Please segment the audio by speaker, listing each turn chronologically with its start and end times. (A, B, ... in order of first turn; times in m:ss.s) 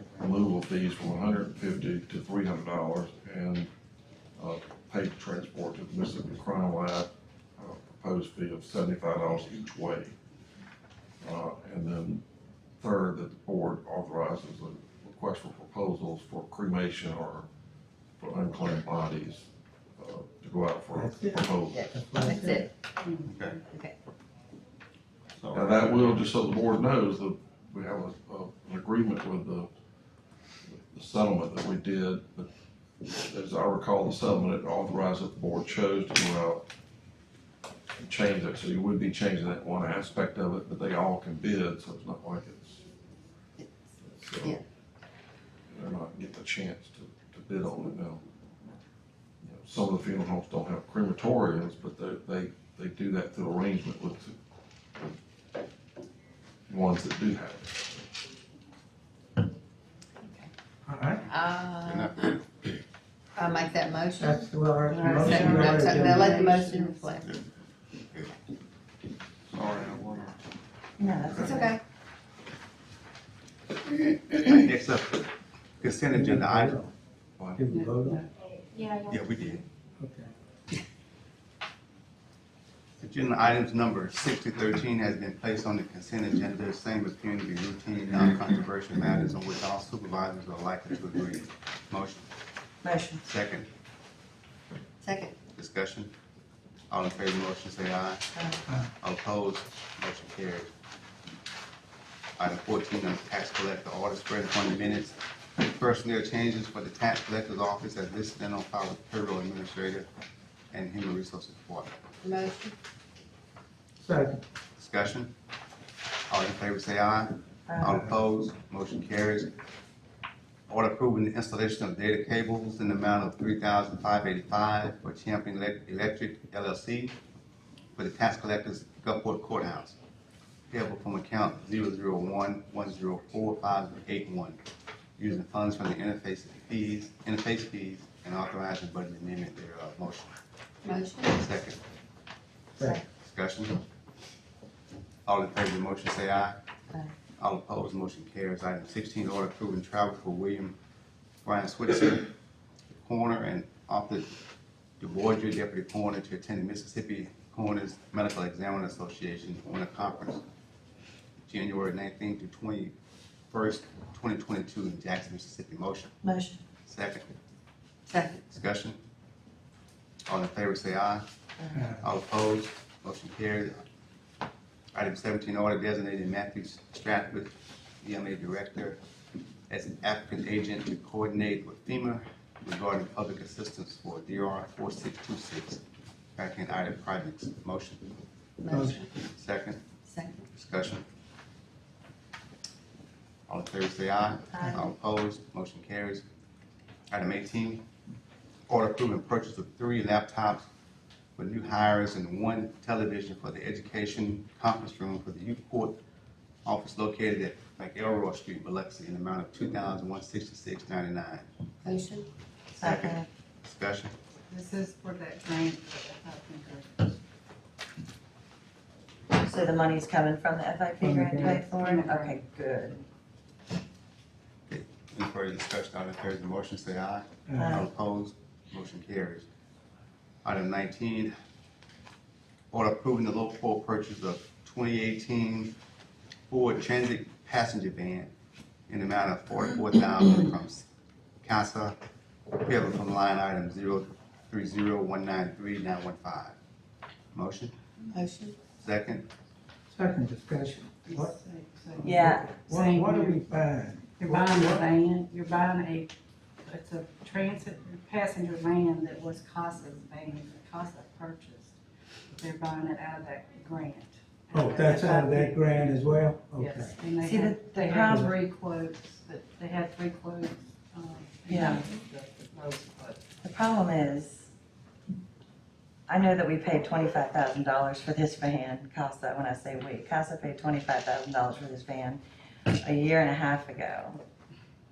0:00.2-0:03.7 A
0:04.4-0:10.2 A
0:11.2-0:12.2 A
0:12.8-0:17.5 A
0:18.2-0:21.9 A
0:20.9-0:22.7 B
0:21.7-0:22.7 C
0:23.0-0:23.6 D
0:23.2-0:23.6 E
0:23.6-0:23.9 C
0:25.4-0:26.3 E
0:25.5-0:29.7 A
0:30.7-0:32.5 A
0:33.0-0:36.6 A
0:38.0-0:42.8 A
0:44.0-0:44.6 A
0:45.7-0:48.2 A
0:49.4-0:54.4 A
0:56.7-0:57.8 A
1:00.2-1:00.5 C
1:00.9-1:01.2 B
1:01.2-1:02.4 E
1:01.3-1:02.3 C
1:03.3-1:04.4 C
1:04.2-1:06.4 B
1:04.8-1:07.2 D
1:05.1-1:07.3 C
1:09.5-1:10.3 E
1:11.0-1:11.7 F
1:11.3-1:11.8 C
1:13.9-1:15.3 E
1:15.8-1:16.8 E
1:16.1-1:16.9 B
1:17.6-1:18.2 B
1:17.6-1:18.3 D
1:19.0-1:19.6 E
1:20.0-1:20.3 B
1:23.0-1:32.3 E
1:32.8-1:33.2 F
1:33.2-1:33.7 E
1:35.0-1:35.4 C
1:35.5-1:36.1 E
1:36.9-1:38.3 E
1:38.3-1:38.6 F
1:38.8-1:40.7 E
1:42.4-1:50.1 E
1:50.7-1:51.9 E
1:52.2-1:52.7 C
1:54.0-1:54.4 B
1:54.8-1:55.3 E
1:56.3-1:59.5 E
1:57.7-1:58.0 F
2:00.7-2:07.2 E
2:08.0-2:10.0 E
2:10.7-2:14.6 E
2:15.2-2:20.3 E
2:20.8-2:21.4 C
2:21.3-2:21.8 E
2:23.2-2:23.8 E
2:25.2-2:26.6 E
2:27.4-2:30.8 E
2:31.4-2:32.3 E
2:33.0-2:34.3 E
2:35.0-2:40.4 E
2:41.5-2:42.9 E
2:43.5-2:46.1 E
2:46.2-2:46.6 F
2:46.8-2:47.3 E
2:48.1-2:48.4 C
2:48.5-2:49.0 E
2:50.3-2:51.2 E
2:51.7-2:52.0 B
2:52.0-2:53.8 E
2:54.9-2:59.0 E
2:59.7-3:05.8 E
3:06.4-3:08.1 E
3:08.6-3:09.1 C
3:08.7-3:09.0 B
3:09.3-3:09.8 E
3:10.0-3:10.4 C
3:10.5-3:11.0 E
3:13.5-3:16.2 E
3:14.6-3:14.8 F
3:17.1-3:17.8 E
3:18.7-3:20.6 E
3:21.4-3:26.0 E
3:26.6-3:31.4 E
3:31.8-3:32.3 C
3:32.7-3:34.1 E
3:32.8-3:33.3 F
3:34.5-3:37.2 D
3:39.3-3:43.0 F
3:41.0-3:41.5 B
3:41.3-3:42.4 D
3:44.7-3:49.4 E
3:47.5-3:47.8 B
3:47.6-3:47.9 F
3:50.4-3:51.3 E
3:52.7-3:55.7 E
3:56.5-3:58.3 E
3:58.9-4:00.8 E
4:01.4-4:02.0 E
4:02.6-4:06.6 E
4:07.3-4:07.7 E
4:08.1-4:08.6 C
4:08.8-4:09.3 E
4:09.9-4:11.4 B
4:11.1-4:13.4 D
4:12.0-4:12.6 F
4:12.0-4:14.9 B
4:14.2-4:16.1 D
4:16.6-4:21.8 D
4:22.3-4:33.2 D
4:24.5-4:27.0 B
4:27.2-4:28.3 F
4:28.0-4:28.3 B
4:31.5-4:31.8 F
4:33.4-4:34.5 F
4:36.1-4:42.2 F
4:42.8-4:44.2 F